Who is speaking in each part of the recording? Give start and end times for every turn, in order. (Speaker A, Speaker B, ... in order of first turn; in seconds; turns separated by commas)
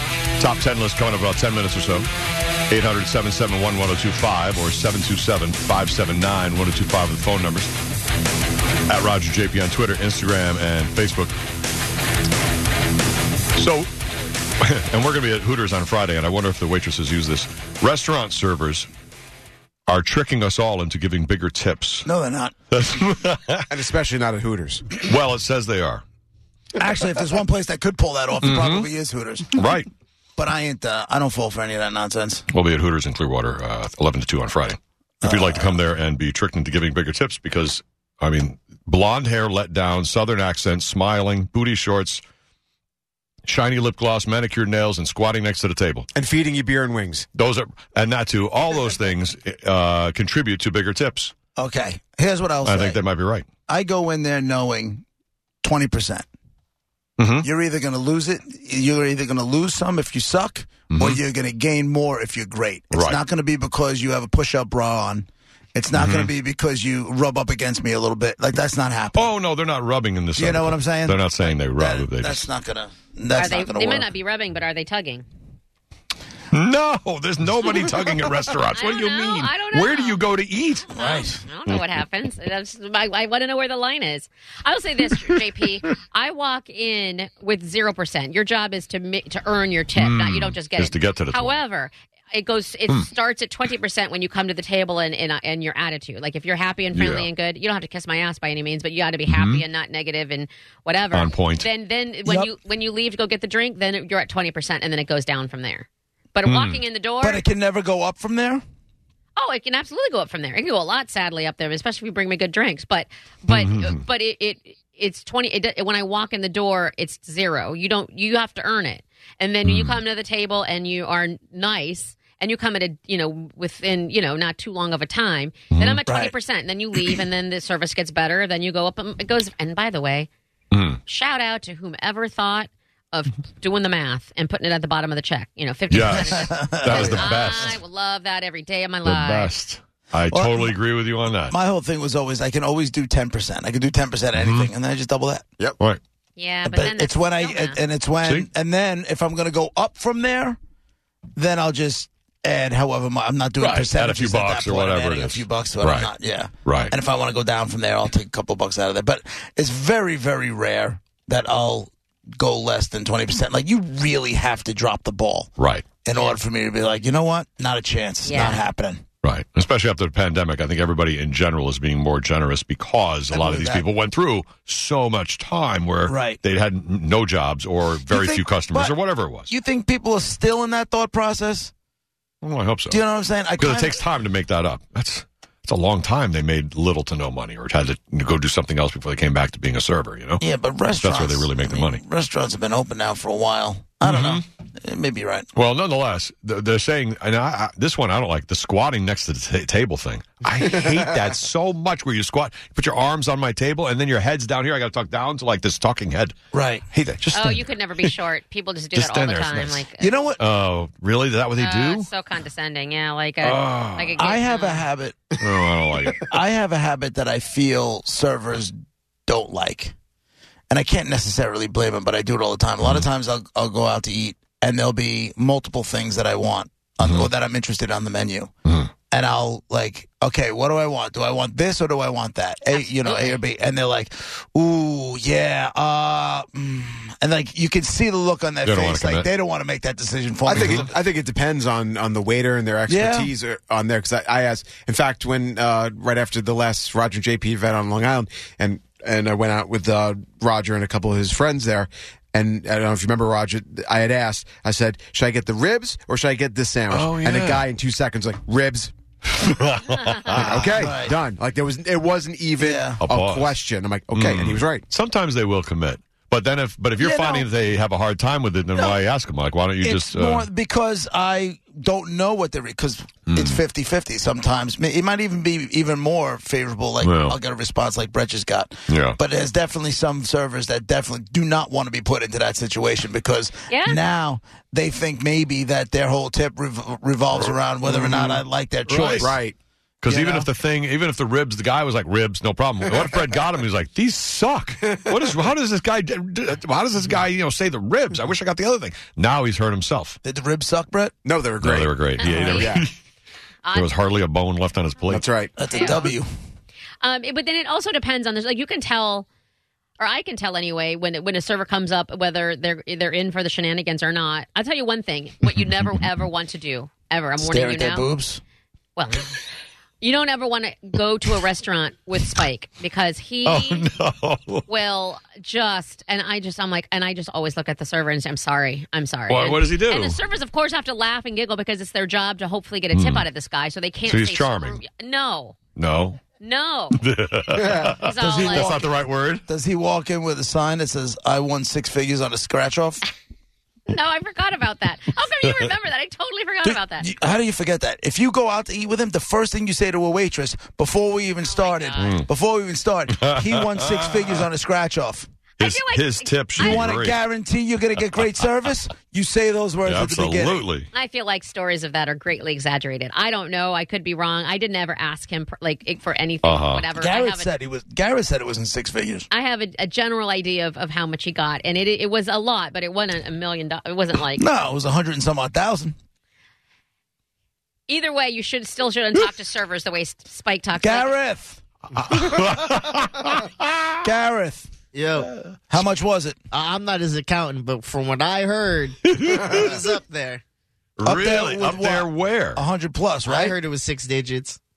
Speaker A: 0.4-2.1, Speaker A: 2.7-7.7, Speaker A: 8.9-11.3, Speaker A: 13.6-13.9, Speaker A: 14.6-18.9, Speaker A: 19.9-22.1, Speaker B: 22.1-22.6, Speaker A: 22.7-23.7, Speaker C: 23.7-24.9, Speaker A: 25.0-26.0, Speaker B: 26.8-29.6, Speaker A: 28.4-28.9, Speaker A: 29.5-29.9, Speaker B: 30.4-32.5, Speaker A: 32.5-42.2, Speaker B: 35.2-35.8, Speaker A: 43.5-46.1, Speaker C: 46.1-47.3, Speaker A: 47.4-51.3, Speaker B: 51.6-53.0, Speaker A: 52.6-53.5, Speaker B: 53.7-55.0, Speaker B: 55.6-56.2, Speaker A: 57.2-57.5, Speaker B: 57.4-69.3, Speaker A: 60.9-61.2, Speaker A: 62.9-63.2, Speaker A: 65.9-66.3, Speaker A: 69.2-72.5, Speaker B: 70.4-74.1, Speaker D: 73.3-75.2, Speaker A: 76.5-81.1, Speaker D: 78.8-80.2, Speaker D: 80.9-107.5, Speaker B: 81.0-81.4, Speaker A: 90.0-91.6, Speaker A: 96.9-97.3, Speaker A: 99.3-99.6, Speaker A: 101.1-101.7, Speaker B: 102.2-102.5, Speaker A: 106.5-106.8, Speaker B: 107.2-108.6, Speaker D: 109.4-130.3, Speaker A: 113.5-113.9, Speaker A: 119.6-120.0, Speaker A: 125.7-126.0, Speaker B: 126.1-126.3, Speaker A: 130.7-131.0, Speaker D: 131.1-139.5, Speaker A: 135.9-137.8, Speaker B: 136.2-137.2, Speaker A: 139.0-141.6, Speaker B: 140.3-140.8, Speaker B: 141.5-145.4, Speaker A: 144.4-144.7, Speaker D: 146.4-147.8, Speaker B: 146.7-150.6, Speaker A: 148.2-148.5, Speaker B: 151.4-165.5, Speaker A: 153.6-156.1, Speaker A: 156.7-156.9, Speaker A: 165.6-165.9, Speaker B: 166.0-169.0, Speaker D: 168.2-168.7, Speaker A: 169.2-179.5, Speaker B: 173.3-173.9, Speaker B: 176.1-176.4, Speaker B: 178.1-179.0, Speaker B: 179.5-181.7, Speaker A: 182.4-183.0, Speaker B: 182.9-184.0, Speaker A: 183.6-190.4, Speaker B: 190.4-195.5, Speaker A: 191.0-192.0, Speaker A: 194.0-194.4, Speaker A: 195.6-206.3, Speaker C: 200.7-201.1, Speaker B: 206.5-206.8, Speaker C: 206.9-207.3, Speaker A: 207.2-208.1, Speaker D: 207.3-210.1, Speaker A: 208.9-209.8, Speaker B: 210.0-210.4, Speaker A: 210.4-212.1, Speaker D: 211.6-214.8, Speaker A: 213.4-214.2, Speaker B: 214.2-215.3, Speaker A: 215.4-216.4, Speaker B: 216.1-218.8, Speaker B: 219.3-219.9, Speaker B: 220.7-228.5, Speaker B: 229.1-240.9, Speaker D: 232.7-233.4, Speaker A: 238.6-239.3, Speaker C: 240.5-258.9, Speaker A: 240.6-240.8, Speaker B: 242.9-243.3, Speaker A: 256.9-257.7, Speaker A: 259.4-260.9, Speaker C: 260.3-264.8, Speaker B: 260.3-261.1, Speaker B: 262.6-263.0, Speaker A: 263.0-263.6, Speaker A: 264.1-270.5, Speaker B: 267.0-267.5, Speaker B: 269.8-289.3, Speaker A: 273.3-273.6, Speaker A: 277.0-277.4, Speaker A: 278.9-279.2, Speaker D: 283.7-284.0, Speaker C: 287.8-290.5, Speaker A: 288.9-289.3, Speaker A: 290.0-300.2, Speaker B: 300.2-301.1, Speaker C: 301.2-302.9, Speaker A: 301.6-302.9, Speaker D: 302.2-302.8, Speaker D: 303.6-304.0, Speaker A: 303.7-305.2, Speaker C: 305.1-305.5, Speaker B: 305.6-306.3, Speaker D: 305.7-306.1, Speaker D: 307.0-309.3, Speaker D: 310.0-318.1, Speaker B: 317.4-318.4, Speaker D: 319.0-319.3, Speaker D: 320.0-323.9, Speaker A: 323.4-324.6, Speaker D: 324.7-335.6, Speaker A: 329.3-330.2, Speaker A: 332.9-333.3, Speaker A: 334.1-334.8, Speaker A: 335.8-336.2, Speaker D: 336.4-337.0, Speaker A: 337.0-339.4, Speaker C: 337.5-337.9, Speaker D: 338.0-338.8, Speaker B: 338.1-338.9, Speaker B: 339.5-343.1, Speaker D: 343.9-347.1, Speaker B: 346.9-355.3, Speaker D: 351.5-352.2, Speaker A: 352.0-352.3, Speaker A: 353.1-354.4, Speaker A: 355.6-357.2, Speaker D: 355.6-357.0, Speaker B: 356.6-360.6, Speaker A: 359.8-360.9, Speaker D: 360.9-367.5, Speaker A: 366.4-366.9, Speaker B: 366.9-369.3, Speaker D: 369.3-374.4, Speaker B: 374.3-375.9, Speaker D: 377.9-381.1, Speaker B: 380.8-381.6, Speaker A: 382.1-383.9, Speaker B: 384.0-384.7, Speaker E: 384.9-385.3, Speaker B: 385.7-386.4, Speaker E: 386.5-390.4, Speaker A: 389.1-389.6, Speaker A: 391.0-392.6, Speaker B: 391.0-393.6, Speaker E: 393.2-394.6